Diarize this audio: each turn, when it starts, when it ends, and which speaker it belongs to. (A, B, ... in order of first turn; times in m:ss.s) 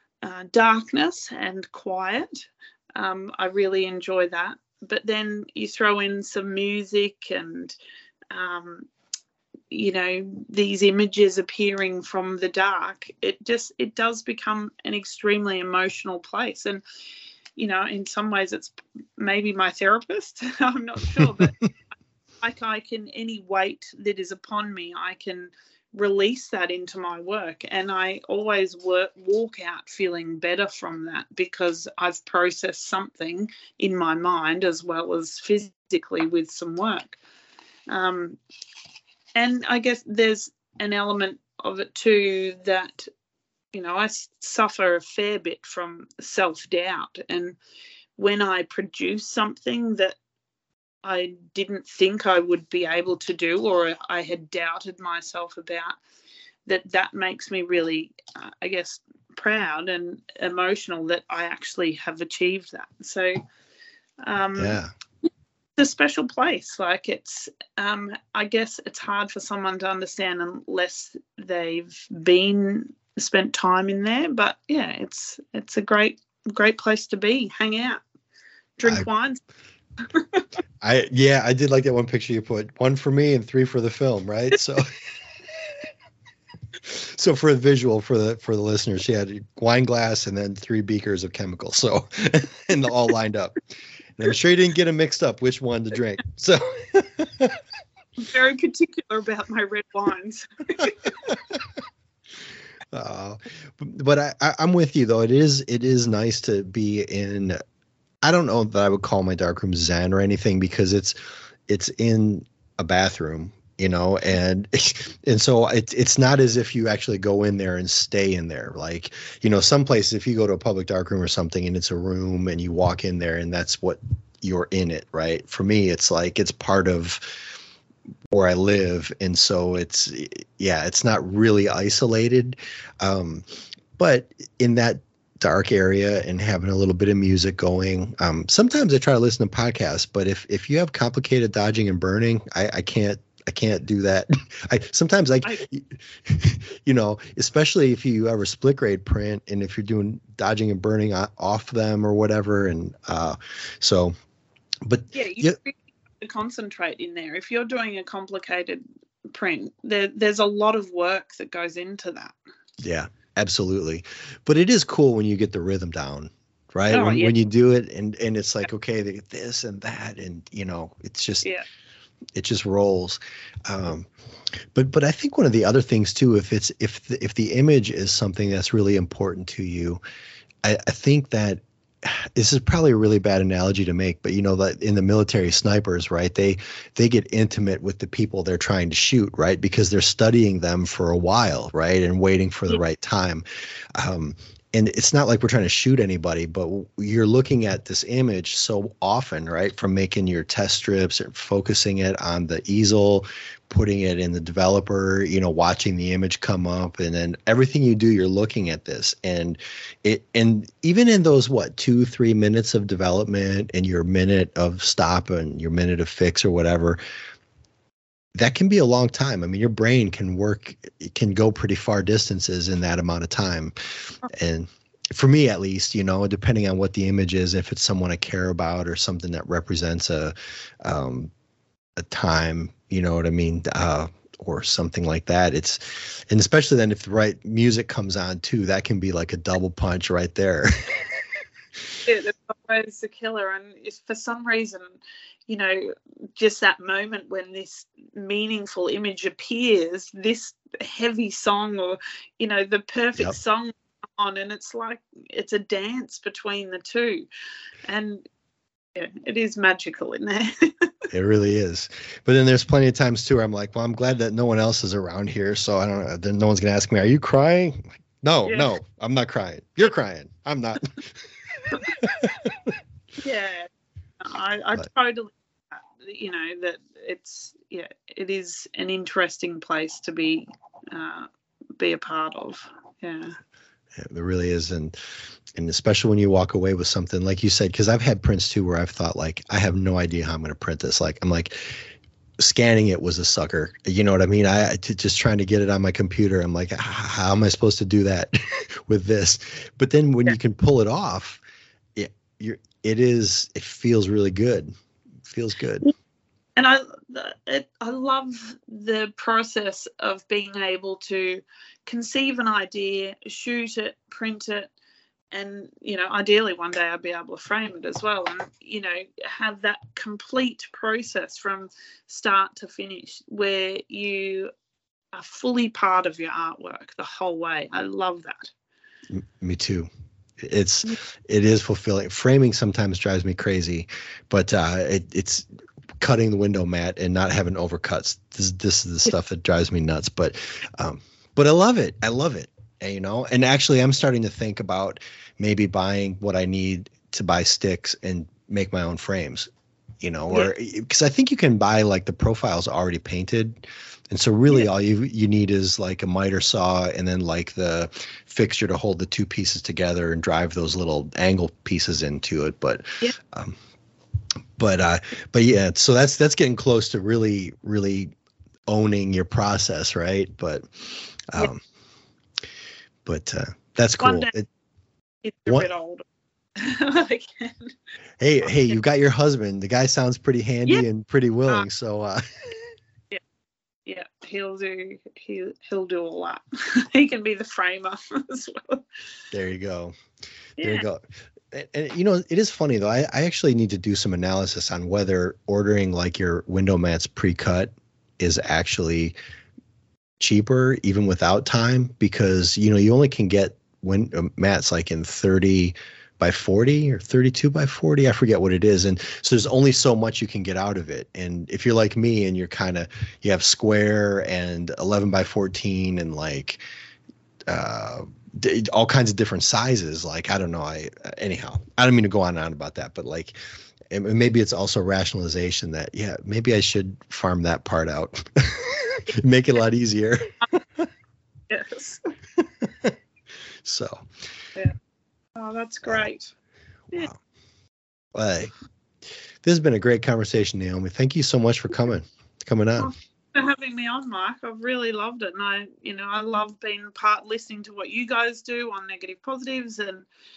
0:00.2-0:07.8 A
0:08.3-0:08.9 A
0:09.7-0:16.8 A
0:17.6-0:21.6 A
0:21.2-0:21.5 B
0:22.4-0:37.2 A
0:37.9-0:38.4 A
0:39.4-0:43.1 A
0:43.7-0:47.6 A
0:48.2-0:50.2 A
0:51.0-0:56.0 A
0:56.7-1:03.4 A
1:04.2-1:04.8 A
1:04.6-1:04.9 B
1:05.8-1:18.0 A
1:18.8-1:19.4 A
1:20.1-1:20.5 A
1:20.8-1:24.9 B
1:26.8-1:33.6 B
1:34.2-1:37.6 B
1:38.2-1:41.4 A
1:42.9-1:47.6 B
1:48.2-2:07.4 B
2:08.3-2:13.4 B
2:14.0-2:34.1 B
2:34.8-2:35.6 B
2:35.1-2:42.3 A
2:42.8-2:51.5 B
2:46.9-2:47.3 A
2:52.3-2:54.1 B
2:54.7-3:00.0 B
3:00.6-3:13.4 B
3:14.0-3:37.0 B
3:38.3-3:43.7 B
3:44.3-3:51.3 B
3:52.0-4:01.1 B
4:02.0-4:17.3 A
4:17.9-4:18.2 A
4:19.0-4:20.9 A
4:21.1-4:32.8 B
4:28.5-4:28.7 A
4:33.2-4:33.7 A
4:34.2-4:43.4 A
4:44.0-4:45.0 B
4:45.6-4:51.8 B
4:52.4-5:01.4 B
5:02.0-5:04.7 B
5:05.2-5:05.9 B
5:06.6-5:14.7 A
5:15.3-5:24.5 A
5:25.1-5:28.5 A
5:29.1-5:29.9 B
5:30.4-5:35.5 B
5:36.0-5:49.5 B
5:50.0-6:03.6 B
6:04.6-6:08.1 B
6:08.7-6:10.7 B
6:11.3-6:11.6 B
6:13.0-6:14.5 B
6:14.0-6:14.3 A
6:15.2-6:16.0 A
6:16.6-6:17.7 A
6:18.2-6:22.2 B
6:23.9-6:28.8 A
6:29.3-6:30.0 B
6:30.6-6:30.9 A
6:30.6-6:39.2 B
6:40.2-6:56.6 B
6:57.5-7:03.4 B
7:03.9-7:10.9 B
7:11.5-7:12.1 A
7:12.4-7:13.0 B
7:13.6-7:14.1 B
7:15.4-7:16.3 A
7:18.1-7:18.5 B
7:19.4-7:22.9 B
7:22.8-7:30.1 A